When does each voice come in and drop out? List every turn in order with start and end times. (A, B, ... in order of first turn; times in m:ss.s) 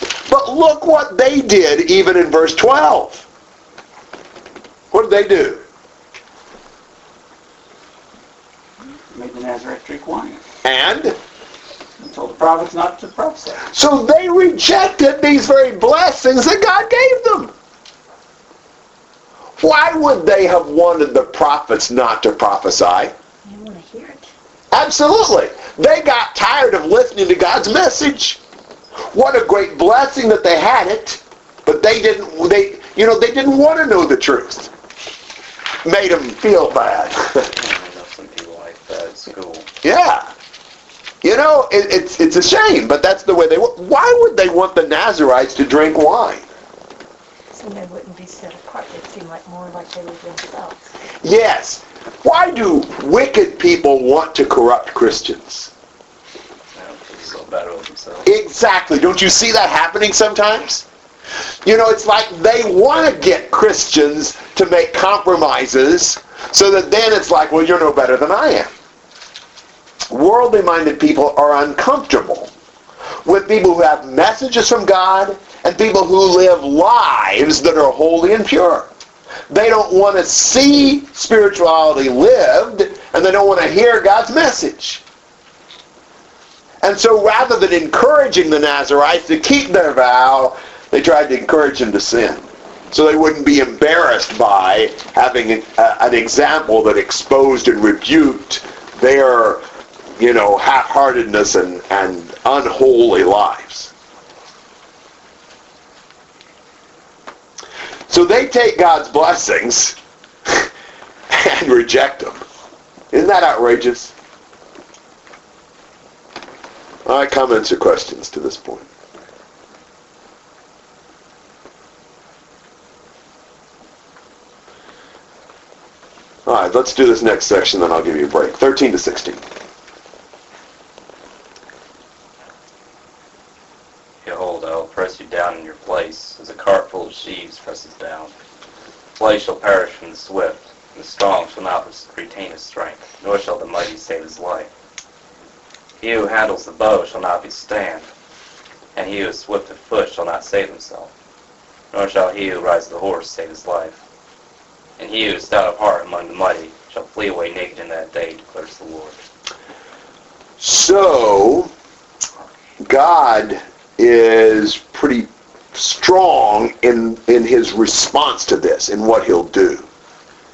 0:00.2-0:03.2 A
0:04.9-0:05.6 A
0:09.1-0:10.4 B
0:10.6-0:11.2 A
0:12.0-0:13.6 B
0:13.7-0:17.5 A
0:19.6-0:23.1 A
0:23.4-0:24.3 C
0:24.7-0:28.4 A
0:29.1-0:34.7 A
0:35.8-0:37.5 A
0:37.5-0:39.7 D
0:39.8-0:40.3 A
0:41.2-0:46.4 A
0:47.5-0:50.9 C
0:51.2-0:55.7 A
0:56.7-0:58.3 D
0:58.2-1:00.8 A
1:01.6-1:08.7 A
1:10.1-1:12.5 A
1:13.2-1:18.9 A
1:19.5-1:25.0 A
1:26.8-1:39.6 A
1:40.2-1:43.9 A
1:48.1-1:50.0 A
1:51.3-1:52.4 A
1:53.1-1:54.1 A
1:57.0-1:58.9 A
2:06.4-2:09.4 A
2:14.2-2:18.3 D
2:19.2-2:24.7 D
2:26.0-2:28.1 D
2:28.9-2:31.1 D
2:31.9-2:34.0 D
2:35.0-2:39.2 D
2:40.6-2:41.7 A
2:42.8-2:49.8 A